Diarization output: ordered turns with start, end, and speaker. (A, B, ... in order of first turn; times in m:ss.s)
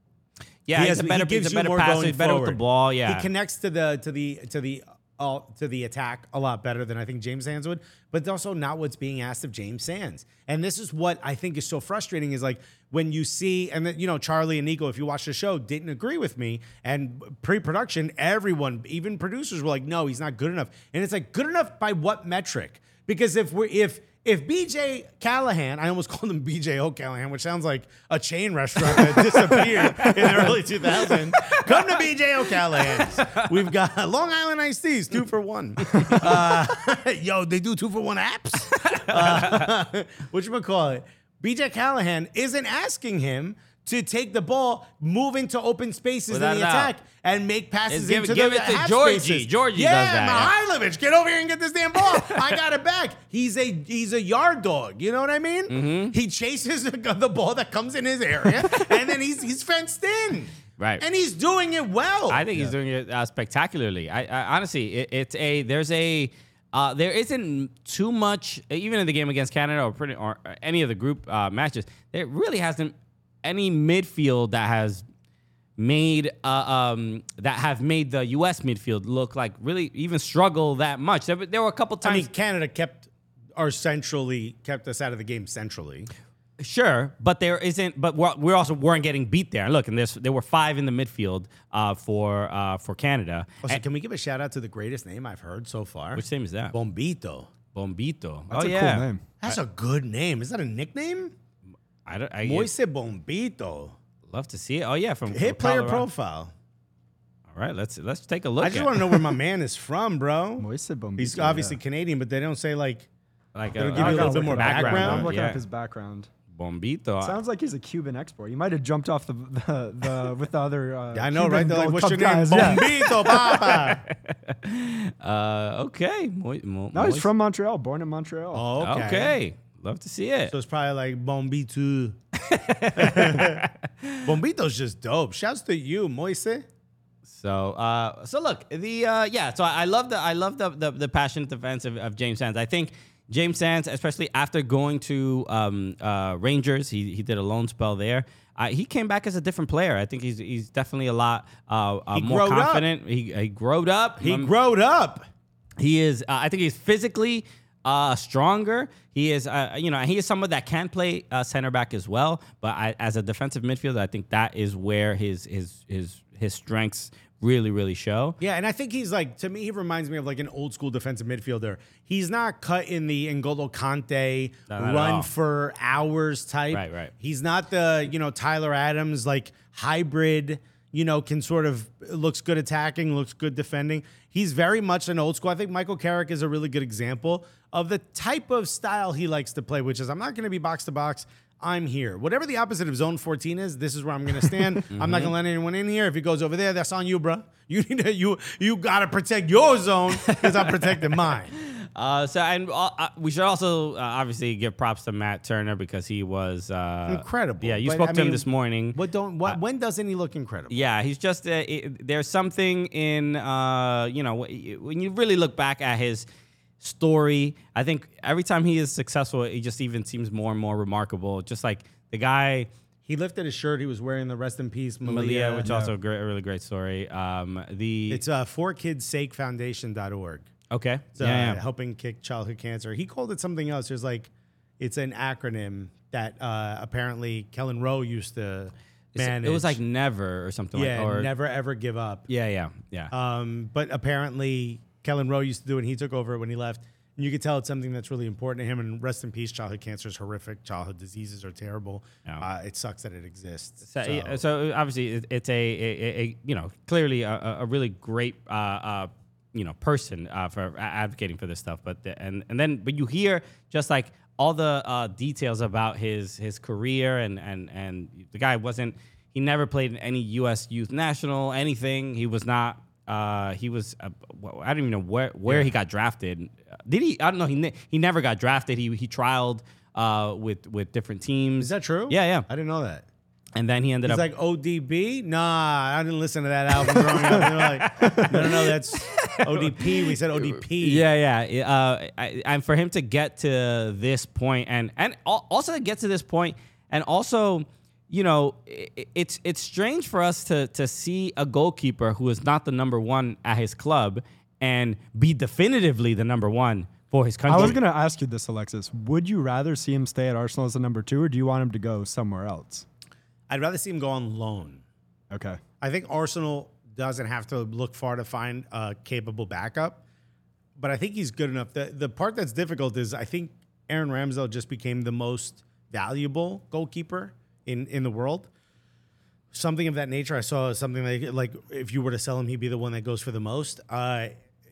0:00.7-0:03.3 A
0:00.7-1:02.5 B
0:29.6-0:30.5 A
0:31.3-0:31.8 A
0:32.8-0:33.5 A
0:35.9-0:36.4 A
0:38.8-0:39.7 A
0:46.3-0:46.9 A
0:47.9-0:50.5 A
0:55.7-0:56.1 A
1:02.3-1:15.0 A
1:15.8-1:22.3 A
1:22.0-1:26.1 B
1:26.6-1:33.8 A
1:33.6-1:37.5 B
1:36.2-1:36.8 A
1:37.7-1:39.6 A
1:38.5-1:39.2 C
1:39.4-1:41.3 B
1:42.0-1:42.7 A
1:42.4-1:44.0 B
1:44.3-1:46.0 A
1:45.3-1:46.5 B
1:47.5-1:49.2 A
1:48.6-1:53.1 B
1:50.6-1:51.8 C
1:53.5-1:55.6 A
1:53.8-1:55.3 B
1:53.9-1:56.3 C
1:56.5-1:57.4 A
1:57.2-2:02.9 C
2:01.1-2:04.0 B
2:02.6-2:07.3 A
2:06.9-2:08.7 C
2:08.5-2:09.4 B
2:08.8-2:10.5 A
2:10.5-2:12.2 B
2:12.4-2:14.2 A
2:13.0-2:13.7 B
2:14.2-2:16.7 B
2:17.2-2:34.5 A
2:32.1-2:32.9 B
2:34.2-2:35.2 B
2:35.8-2:48.4 A
2:48.4-3:21.5 B
2:54.7-2:55.3 A
2:56.7-2:57.1 A
3:14.9-3:15.3 A
3:20.2-3:21.0 A
3:21.5-3:29.6 A
3:27.1-3:30.8 B
3:30.7-3:36.2 A
3:36.8-3:42.7 A
3:43.0-3:45.7 B
3:45.0-3:48.2 A
3:45.6-3:45.9 C
3:48.1-3:50.5 B
3:50.7-3:51.6 A
3:51.2-3:59.8 B
3:59.2-4:01.3 A
4:00.7-4:02.2 B
4:02.3-4:03.1 A
4:03.1-4:14.4 B
4:13.9-4:42.5 A
4:35.5-4:35.7 B
4:41.6-4:43.0 B
4:43.6-4:44.3 A
4:44.0-4:51.0 B
4:46.9-5:07.8 A
5:07.5-5:12.8 C
5:13.5-5:14.8 B
5:15.3-5:15.6 C
5:15.8-5:20.0 B
5:20.8-5:28.5 B
5:29.5-5:34.4 B